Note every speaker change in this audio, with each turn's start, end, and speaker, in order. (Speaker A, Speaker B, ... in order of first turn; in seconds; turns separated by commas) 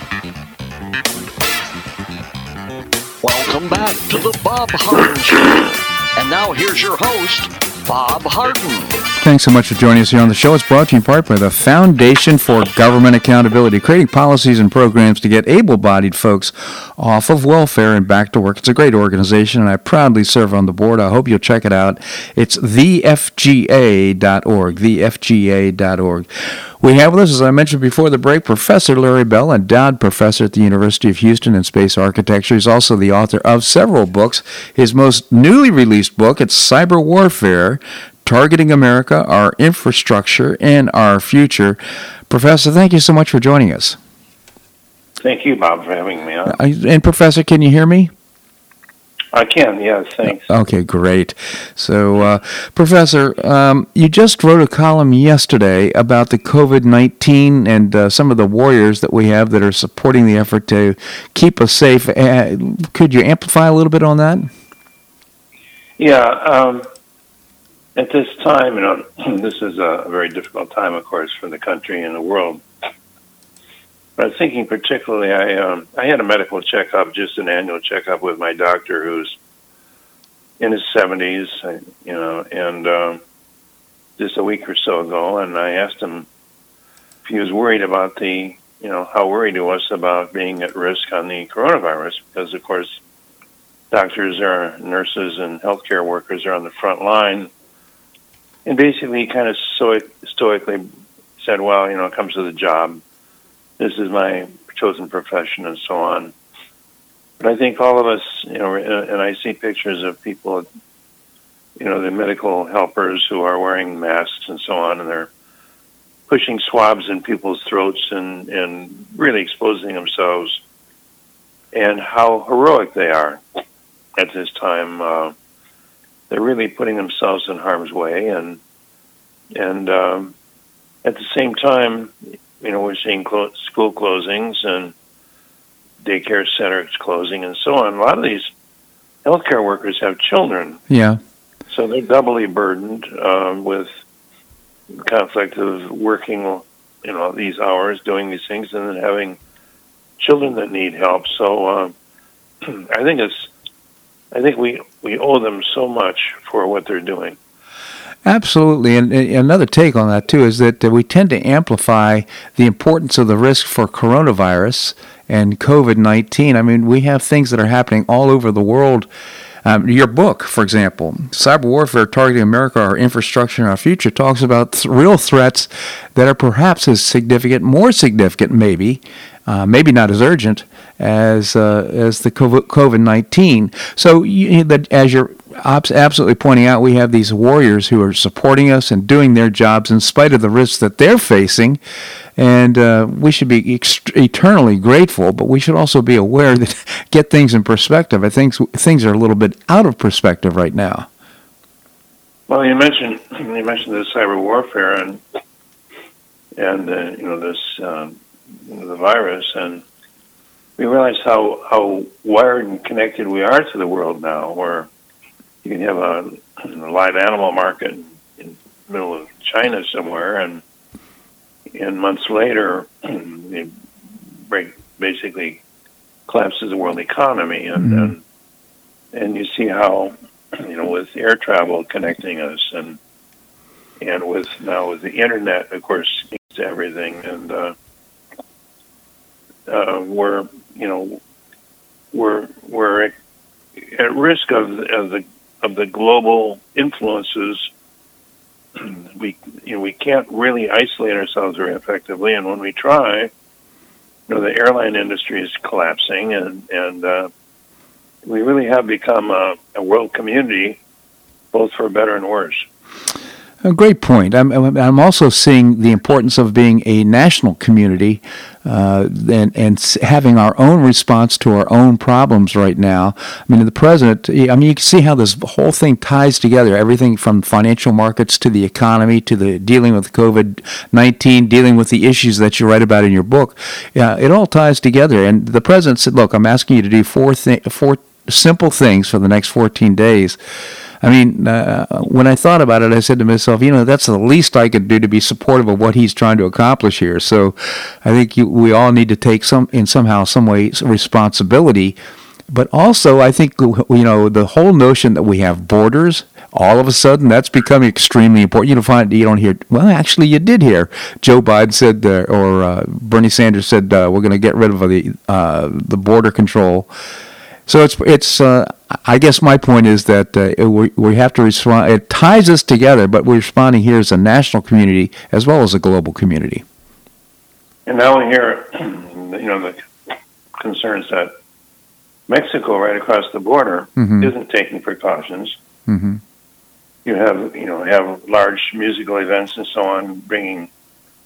Speaker A: 3.2-9.0, Speaker B: 9.2-26.2, Speaker B: 26.8-44.0, Speaker C: 45.2-46.6, Speaker B: 46.5-48.1, Speaker C: 49.3-50.5, Speaker B: 50.2-64.5, Speaker C: 66.0-66.8, Speaker C: 67.9-72.6, Speaker C: 74.2-79.4, Speaker C: 80.6-83.2, Speaker C: 84.2-86.3, Speaker C: 87.2-93.0, Speaker C: 93.9-97.5, Speaker C: 98.6-100.9, Speaker C: 101.4-103.0, Speaker C: 103.8-106.3, Speaker C: 107.4-110.7, Speaker C: 111.8-115.3, Speaker C: 116.3-120.6, Speaker C: 121.7-123.4, Speaker C: 124.2-125.3, Speaker C: 126.3-128.6, Speaker C: 129.5-130.3, Speaker C: 131.0-134.9, Speaker C: 136.0-138.5, Speaker C: 139.2-140.8, Speaker B: 140.9-141.2, Speaker C: 141.7-143.9, Speaker C: 144.9-149.4, Speaker C: 150.2-151.9, Speaker C: 152.6-153.5, Speaker C: 154.3-157.4, Speaker B: 158.2-169.1, Speaker B: 169.6-191.8, Speaker B: 192.4-201.1, Speaker C: 202.5-205.2, Speaker C: 206.6-209.8, Speaker C: 210.8-214.9, Speaker C: 215.6-220.6, Speaker C: 221.7-223.8, Speaker C: 224.5-225.6, Speaker C: 226.3-228.2, Speaker B: 227.8-228.1, Speaker C: 229.1-233.0, Speaker C: 234.0-237.7, Speaker C: 239.7-241.2, Speaker C: 242.1-243.1, Speaker C: 243.8-247.7, Speaker C: 248.8-253.3, Speaker C: 254.3-257.3, Speaker C: 258.2-260.8, Speaker C: 261.5-262.6, Speaker B: 263.6-290.4, Speaker B: 291.0-302.0, Speaker B: 302.5-316.9, Speaker B: 317.7-326.6, Speaker C: 327.9-329.9, Speaker C: 330.6-331.3, Speaker C: 332.3-335.6, Speaker B: 334.0-334.3, Speaker B: 335.9-336.2, Speaker C: 337.0-340.7